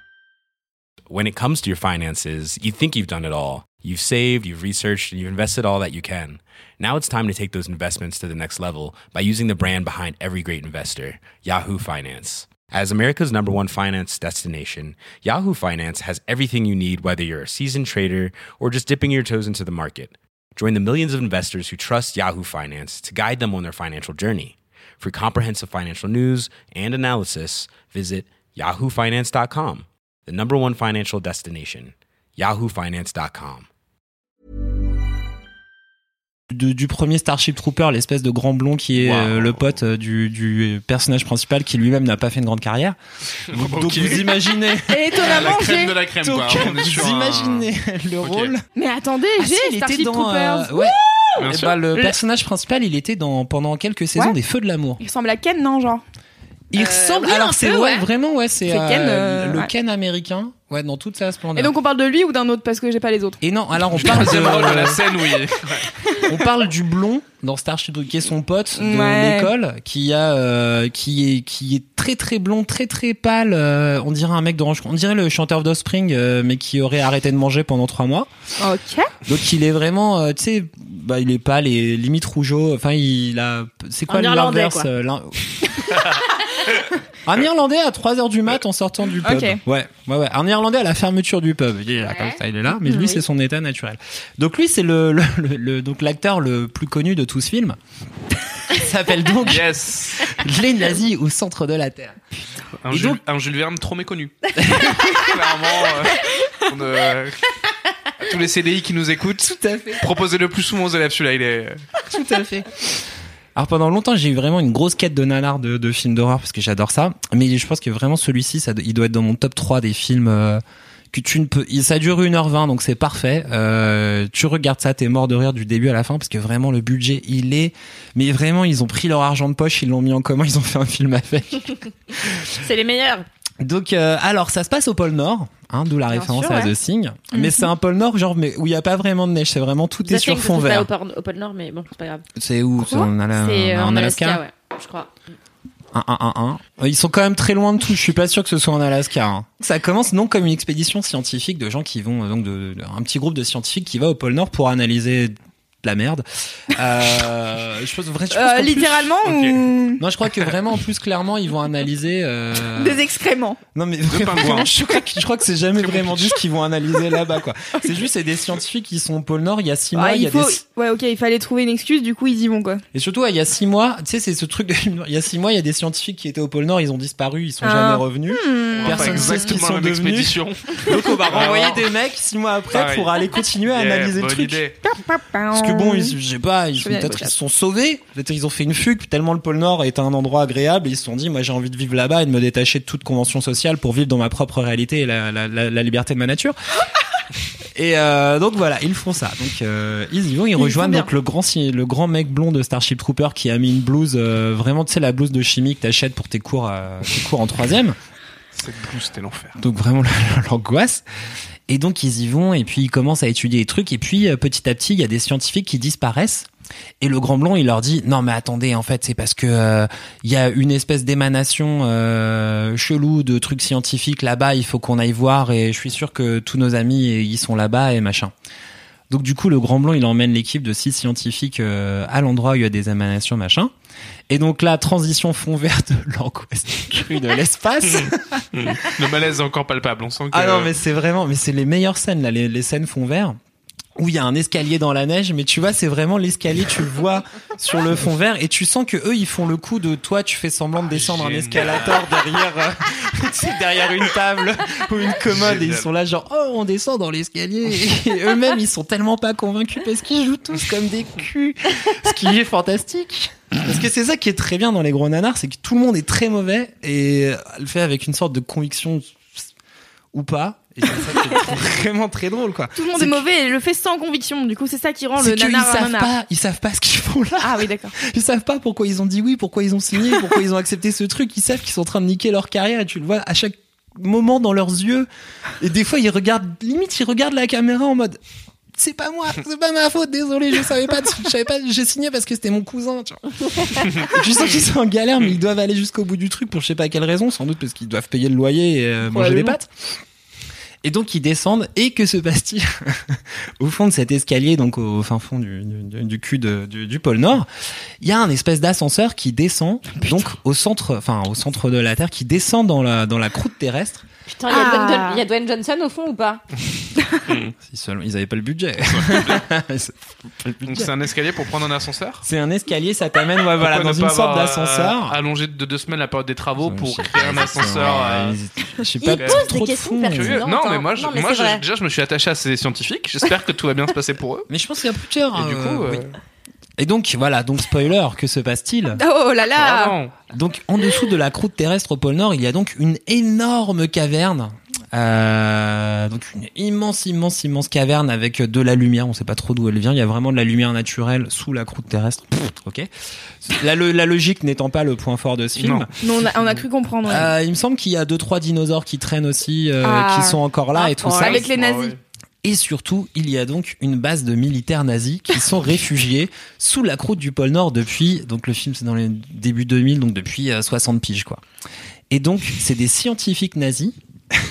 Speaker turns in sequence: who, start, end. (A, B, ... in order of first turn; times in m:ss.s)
0:01.1-0:33.7 A
0:36.5-0:43.0 B
0:38.9-0:39.8 C
0:43.5-0:45.5 B
0:43.5-0:44.4 C
0:44.9-0:46.0 D
0:45.2-0:47.7 C
0:46.2-0:48.6 B
0:48.2-0:48.5 C
0:48.7-0:52.1 D
0:49.4-0:55.0 B
0:51.4-0:51.8 C
0:55.0-0:56.0 D
0:56.7-1:01.7 B
0:56.8-0:58.0 E
0:58.7-0:59.7 D
1:01.5-1:03.4 D
1:03.4-1:05.0 B
1:03.9-1:05.9 C
1:06.3-1:18.3 B
1:08.8-1:09.5 D
1:18.6-1:19.1 D
1:19.2-1:26.2 B
1:24.1-1:24.9 E
1:27.2-1:37.8 B
1:29.2-1:29.6 D
1:32.0-1:33.2 E
1:38.7-1:42.2 B
1:39.4-1:40.4 C
1:42.8-1:47.4 C
1:42.9-1:43.2 B
1:44.6-1:45.2 B
1:48.2-1:51.8 C
1:49.4-1:50.1 B
1:52.1-1:52.9 B
1:53.5-2:12.4 B
2:12.4-2:13.2 E
2:13.6-2:20.9 B
2:16.1-2:16.7 E
2:17.3-2:17.7 D
2:20.0-2:22.2 E
2:22.4-2:24.4 B
2:23.3-2:25.1 E
2:25.9-2:39.1 B
2:38.3-2:40.0 D
2:39.2-2:39.6 C
2:40.0-2:43.0 B
2:42.7-2:43.6 D
2:43.7-2:50.6 B
2:44.1-2:44.7 C
2:45.8-2:46.3 C
2:49.9-2:52.8 D
2:52.9-3:04.6 B
2:57.6-2:59.5 D
2:58.7-3:01.8 C
3:02.7-3:03.2 C
3:03.7-3:04.8 C
3:05.0-3:06.2 D
3:05.5-3:16.6 B
3:06.8-3:07.3 D
3:17.7-3:28.0 B
3:20.6-3:21.1 D
3:28.5-3:29.6 C
3:29.6-3:31.0 B
3:31.7-3:36.5 B
3:37.0-3:48.3 B
3:49.1-3:53.7 B
3:54.3-3:58.9 B
3:58.0-4:00.7 C
4:00.3-4:03.4 B
4:04.0-4:29.4 B
4:10.9-4:12.2 C
4:15.2-4:15.9 C
4:30.1-4:33.2 B
4:32.8-4:36.1 D
4:35.2-4:45.1 B
4:37.4-4:37.9 D
4:45.6-4:48.2 B
4:48.7-4:59.7 B
4:59.1-4:59.5 D
5:00.8-5:07.5 B
5:08.0-5:14.0 B
5:10.0-5:10.2 D
5:14.3-5:16.4 E
5:14.5-5:15.2 D
5:17.3-5:17.5 C
5:17.6-5:20.9 B
5:18.9-5:19.4 C
5:20.6-5:22.2 C
5:22.2-5:25.2 B
5:23.6-5:28.4 C
5:26.6-5:30.4 B
5:29.0-5:31.6 E
5:29.1-5:29.6 D
5:29.2-5:29.5 C
5:30.2-5:34.5 C
5:34.5-5:36.0 B
5:35.3-5:36.1 C
5:36.8-5:39.0 B
5:38.9-5:40.0 D
5:39.6-5:40.1 C
5:40.3-5:52.9 B
5:53.4-5:55.9 B
5:55.6-5:55.9 C
5:56.0-5:57.3 D
5:57.0-6:01.5 B
5:59.8-6:01.9 D
6:01.0-6:01.2 E
6:01.2-6:02.0 C
6:02.4-6:11.4 B
6:12.1-6:14.0 B